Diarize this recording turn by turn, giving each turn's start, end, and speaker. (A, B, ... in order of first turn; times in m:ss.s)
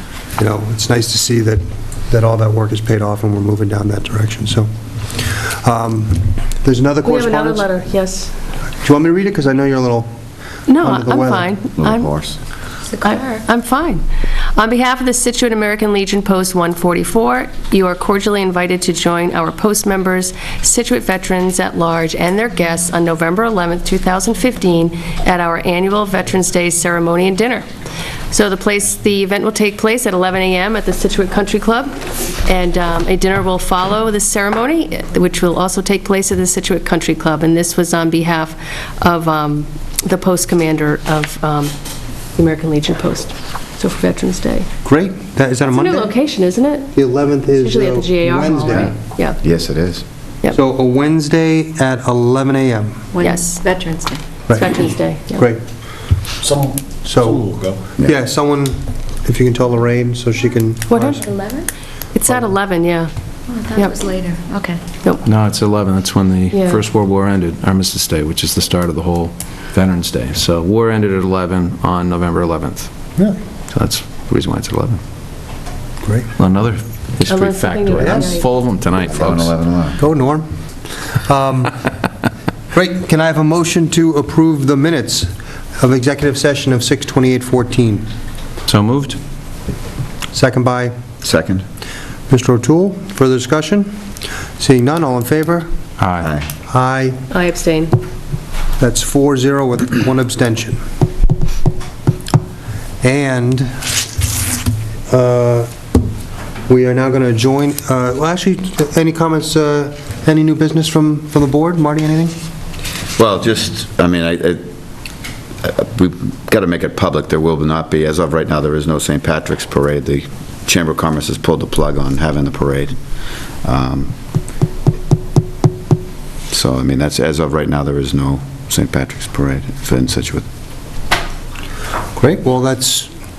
0:00.4-0:07.7 A
0:07.0-0:08.3 B
0:08.8-0:10.1 A
0:10.7-0:12.1 B
0:10.8-0:11.5 A
0:11.8-0:12.4 C
0:12.8-0:13.4 D
0:13.0-0:14.0 B
0:14.5-0:27.7 B
0:28.3-0:41.7 B
0:42.3-0:44.7 B
0:44.8-0:46.2 A
0:45.7-0:46.9 B
0:46.9-0:48.9 A
0:47.6-0:49.4 B
0:49.4-0:50.0 C
0:50.5-0:53.1 A
0:53.1-0:54.2 D
0:53.2-0:53.6 B
0:54.5-0:55.6 A
0:54.5-0:55.5 B
0:57.0-1:01.2 A
1:00.9-1:01.2 B
1:01.2-1:01.7 D
1:02.1-1:03.1 B
1:03.5-1:04.8 D
1:05.2-1:12.9 E
1:06.5-1:06.8 B
1:13.7-1:15.0 E
1:16.0-1:16.3 A
1:16.4-1:19.6 E
1:17.2-1:18.5 B
1:18.0-1:18.3 A
1:19.0-1:20.0 C
1:20.0-1:20.5 A
1:21.2-1:21.8 A
1:22.7-1:28.1 A
1:28.7-1:29.2 E
1:30.3-1:31.1 A
1:31.2-1:31.6 C
1:32.3-1:33.9 A
1:34.6-1:35.7 A
1:36.0-1:36.3 E
1:36.2-1:36.5 C
1:36.7-1:37.2 A
1:37.3-1:37.9 B
1:38.8-1:40.8 A
1:43.0-1:43.9 A
1:45.1-1:45.7 A
1:46.7-1:52.3 A
1:53.2-1:54.6 C
1:55.6-2:03.0 C
2:03.6-2:04.1 C
2:06.5-2:10.5 C
2:12.2-2:13.1 A